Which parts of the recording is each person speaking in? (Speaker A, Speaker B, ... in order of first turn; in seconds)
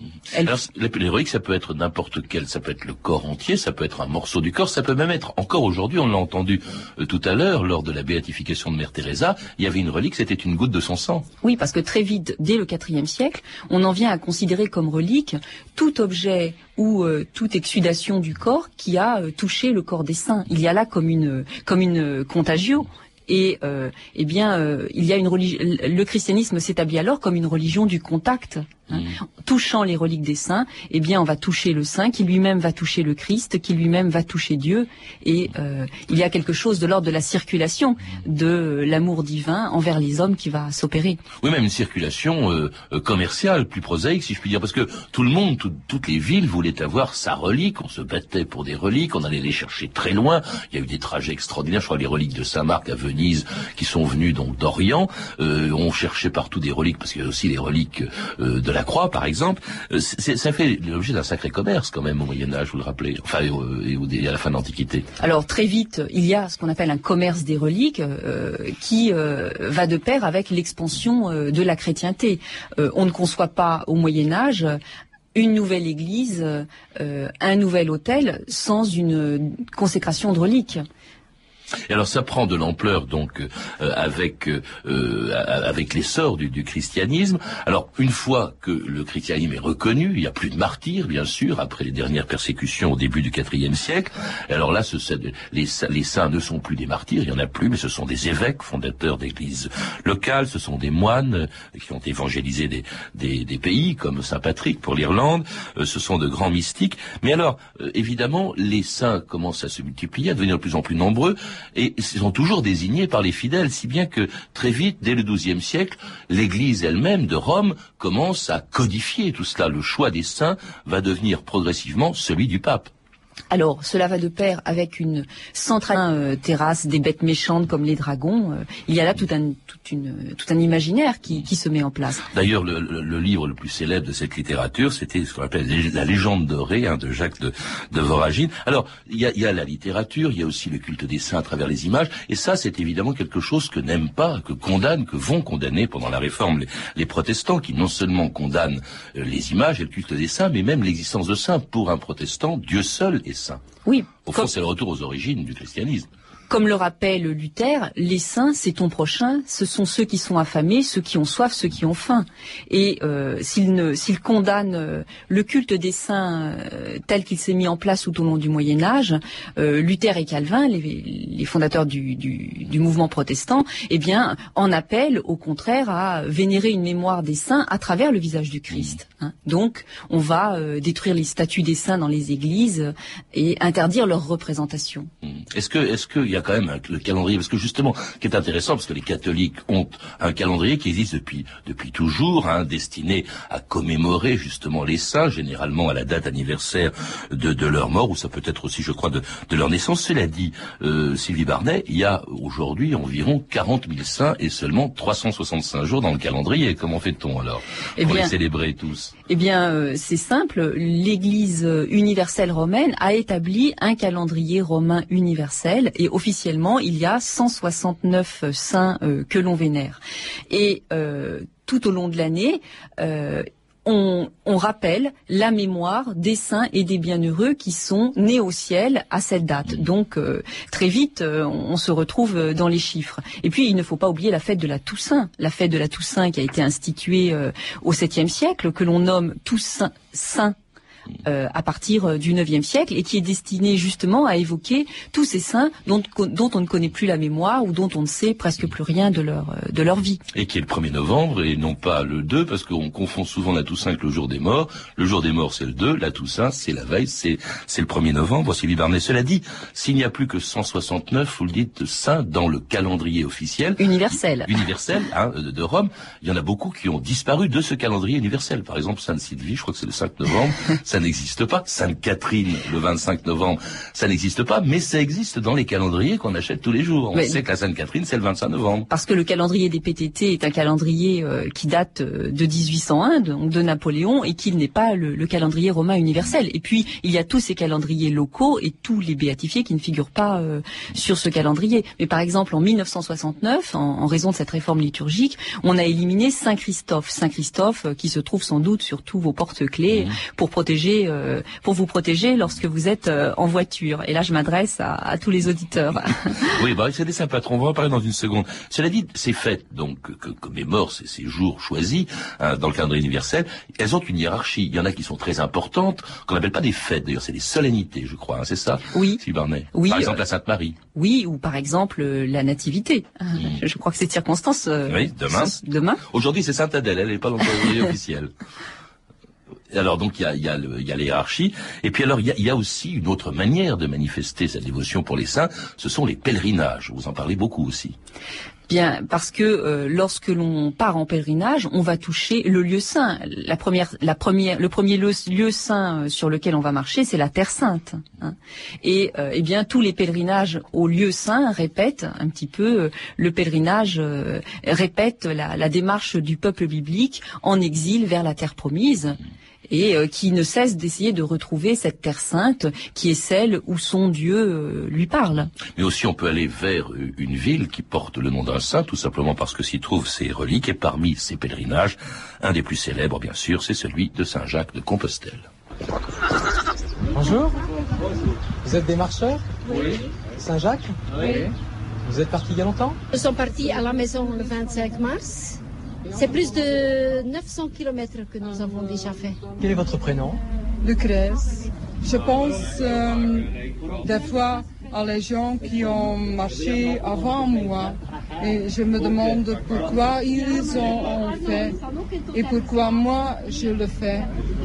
Speaker A: 0.4-11.2, 41.4-65.1, 81.9-122.9, 132.3-153.6, 154.2-156.1, 185.2-209.1, 250.3-263.9, 264.4-278.9, 306.6-320.8, 324.9-325.6, 326.1-328.3, 329.7-337.9, 365.8-375.5
Speaker B: 11.4-41.2, 65.2-74.8, 75.3-80.8, 123.5-132.3, 153.8-154.5, 156.5-185.1, 208.0-208.3, 209.3-240.6, 241.2-250.2, 263.8-264.5, 277.1-277.4, 278.9-306.5, 318.9-319.2, 319.7-320.2, 320.9-326.0, 338.7-359.2, 359.7-365.5
Speaker C: 377.1-377.6, 378.6-381.5, 382.1-383.0, 389.6-390.4
Speaker D: 383.1-385.6, 386.1-389.4
Speaker E: 390.8-393.5, 394.0-401.8, 402.3-404.3